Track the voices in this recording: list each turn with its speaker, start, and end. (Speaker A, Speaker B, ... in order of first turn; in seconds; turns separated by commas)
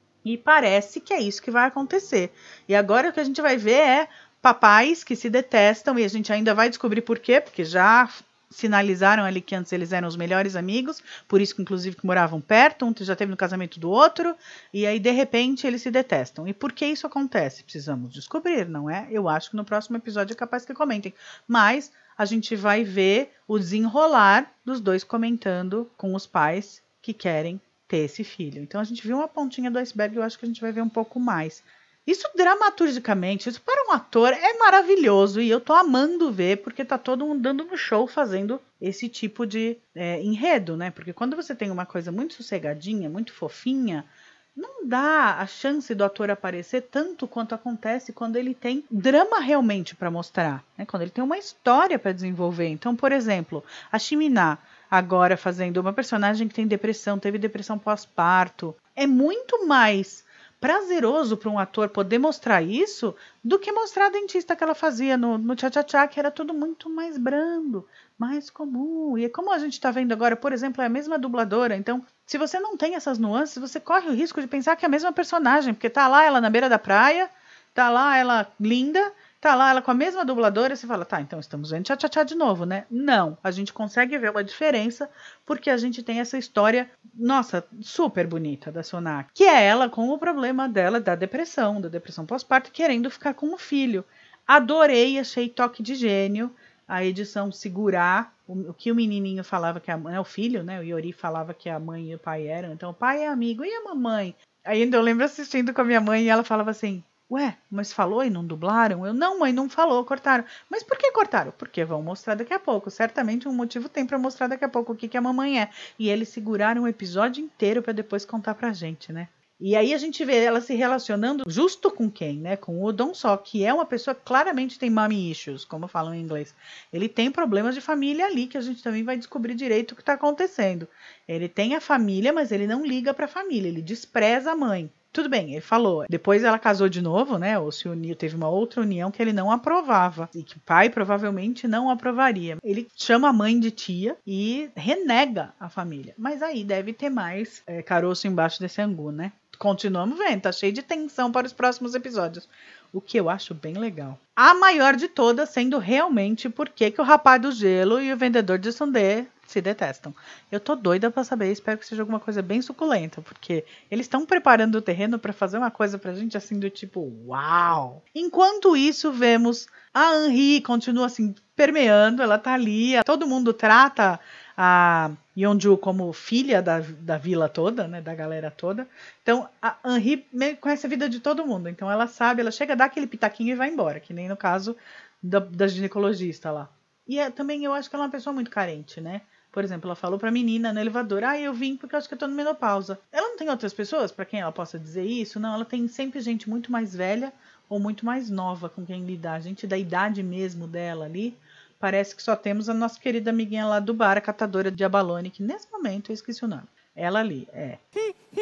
Speaker A: 0.2-208.0